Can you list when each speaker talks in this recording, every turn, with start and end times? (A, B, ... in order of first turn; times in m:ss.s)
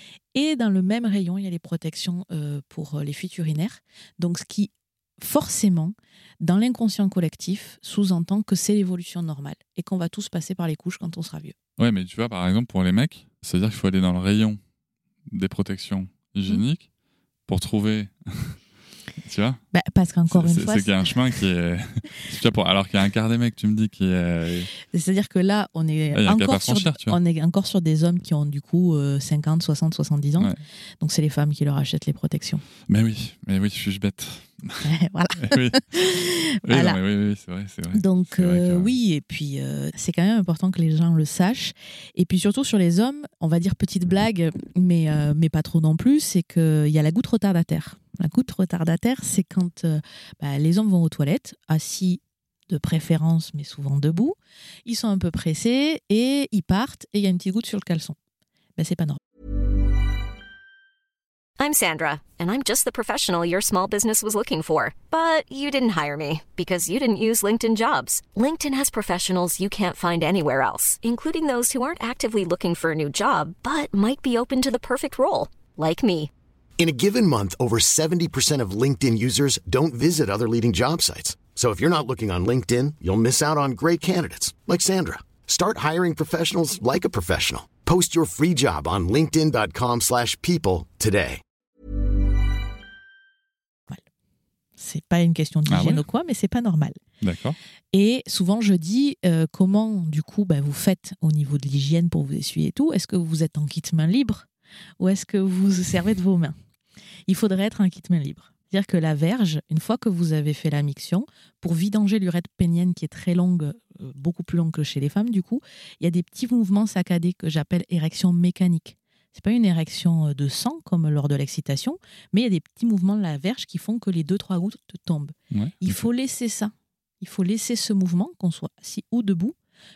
0:00.3-0:11.5 A
0:11.8-0:14.6 B
0:15.3-0:16.9 B
0:17.5-0:18.6 B
0:19.2-0:19.6 B
0:19.7-0:21.4 A
0:20.3-0:24.7 B
0:24.9-0:32.6 A
0:26.1-0:27.2 B
0:32.9-0:35.8 B
0:34.8-0:37.0 A
0:36.6-0:38.9 B
0:37.9-0:58.2 A
0:58.8-0:59.2 A
1:01.6-1:16.3 C
1:16.8-1:31.4 D
1:34.8-1:37.0 A
1:35.7-1:36.0 B
1:37.2-1:37.6 B
1:37.9-1:44.5 A
1:45.0-1:46.6 A
1:47.3-2:09.6 A
2:05.5-2:06.1 B